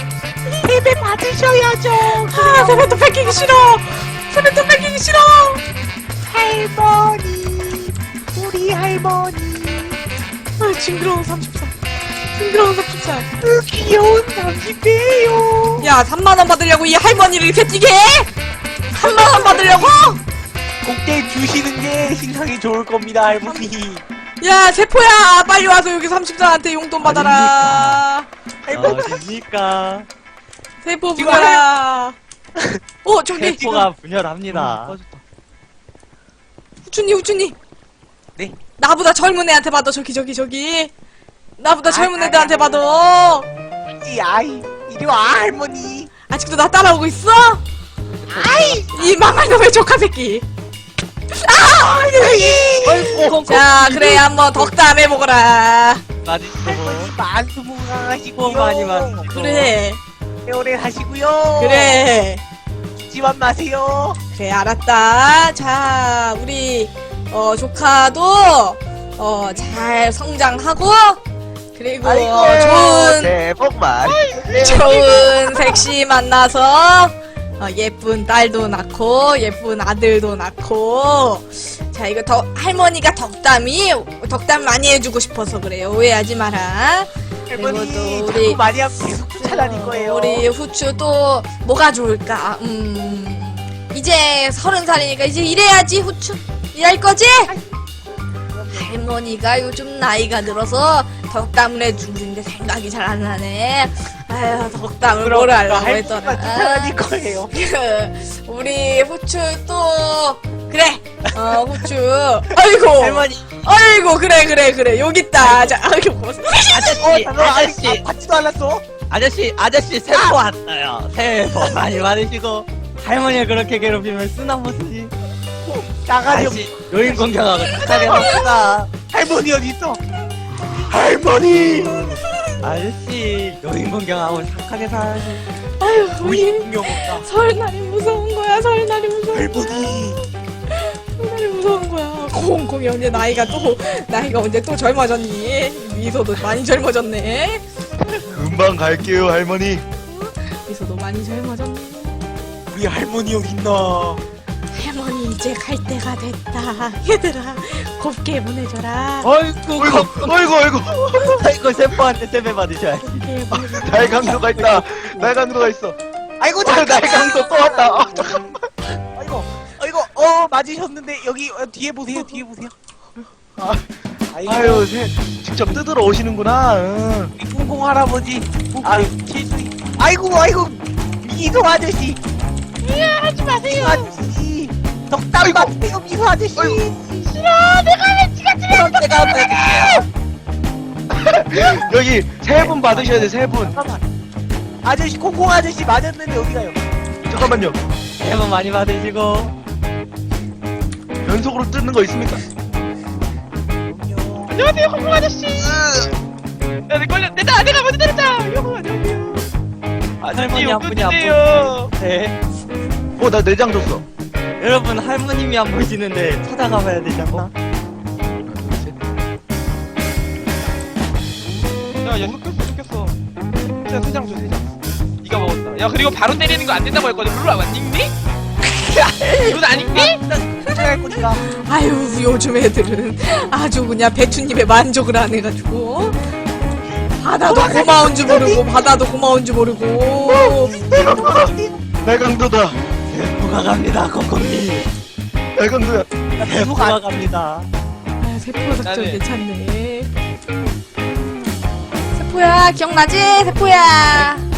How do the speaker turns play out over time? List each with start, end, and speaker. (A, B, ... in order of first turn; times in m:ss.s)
0:00.5-0:03.5 A
0:02.1-0:05.6 B
0:06.2-0:10.0 A
0:10.6-0:11.7 B
0:12.3-0:13.3 B
0:13.4-0:15.9 A
0:15.8-0:18.3 B
0:18.9-0:20.2 B
0:19.0-0:19.9 A
0:20.8-0:24.0 A
0:24.4-0:28.3 B
0:27.0-0:28.0 C
0:28.7-0:29.3 A
0:28.7-0:30.1 C
0:30.8-0:32.2 B
0:31.2-0:31.7 A
0:32.6-0:32.8 A
0:33.0-0:33.9 B
0:33.3-0:35.0 C
0:34.5-0:35.2 D
0:36.8-0:37.6 B
0:38.8-0:40.9 B
0:41.6-0:43.5 B
0:41.8-0:42.8 A
0:43.9-0:46.1 A
0:46.3-0:47.6 B
0:48.3-0:49.2 A
0:48.4-0:48.7 C
0:48.4-0:50.5 B
0:51.3-0:56.0 B
0:52.1-0:53.4 A
0:52.8-0:54.7 C
0:56.2-0:57.2 C
0:56.5-0:59.3 A
0:58.3-0:59.7 C
0:59.3-1:00.0 B
1:00.4-1:02.1 A
1:01.6-1:02.4 B
1:03.0-1:04.2 A
1:04.3-1:11.2 B
1:11.8-1:13.4 B
1:12.0-1:14.9 D
1:14.0-1:15.3 E
1:14.5-1:28.6 B
1:27.5-1:30.5 A
1:29.4-1:37.5 B
1:38.5-1:38.9 A
1:38.7-1:56.8 B
1:45.2-1:47.5 A
1:53.0-1:53.5 C
1:56.5-1:58.0 C
1:56.8-1:58.9 A
1:59.0-2:05.1 C
2:00.1-2:00.4 A
2:05.7-2:10.0 A
2:06.2-2:09.0 C
2:10.7-2:12.2 A
2:11.7-2:12.2 D
2:12.6-2:15.4 C
2:15.8-2:27.6 B
2:16.2-2:17.3 A
2:19.3-2:20.2 A
2:23.1-2:23.8 A
2:28.3-2:29.8 D
2:30.1-2:32.4 B
2:32.7-2:34.2 A
2:34.7-2:39.3 B
2:39.2-2:40.4 C
2:39.8-2:41.4 D
2:41.2-2:43.1 C
2:43.0-2:44.2 B
2:43.5-2:46.0 D
2:44.0-2:45.7 A
2:46.4-2:48.4 A
2:46.6-2:48.5 D
2:49.2-2:52.7 A
2:53.6-2:53.9 D
2:54.3-2:54.9 A
2:54.4-2:57.3 D
2:57.4-3:02.2 A
2:58.8-2:59.1 D
3:02.8-3:04.2 E
3:03.6-3:07.4 A
3:05.4-3:05.8 D
3:07.3-3:10.0 E
3:08.7-3:10.0 C
3:09.4-3:09.8 A
3:11.1-3:13.8 D
3:12.5-3:14.1 A
3:14.8-3:16.8 A
3:17.3-3:17.8 D
3:18.2-3:19.6 C
3:21.2-3:22.4 D
3:23.9-3:24.6 A
3:24.5-3:25.9 E
3:25.6-3:26.1 D
3:26.9-3:29.5 E
3:30.2-3:31.9 E
3:30.3-3:32.4 C
3:33.2-3:34.0 D
3:34.6-3:37.5 C
3:42.0-3:48.1 E
3:48.9-3:49.5 C
3:49.3-3:50.2 E
3:49.8-3:51.4 A
3:51.4-3:56.2 B
3:57.2-4:00.8 B
3:57.4-3:58.7 A
4:00.3-4:01.9 A
4:01.0-4:02.8 D
4:03.1-4:04.9 C
4:05.6-4:06.1 D
4:06.4-4:07.4 A
4:06.4-4:07.7 C
4:08.2-4:10.1 B
4:08.8-4:09.2 E
4:12.1-4:14.5 B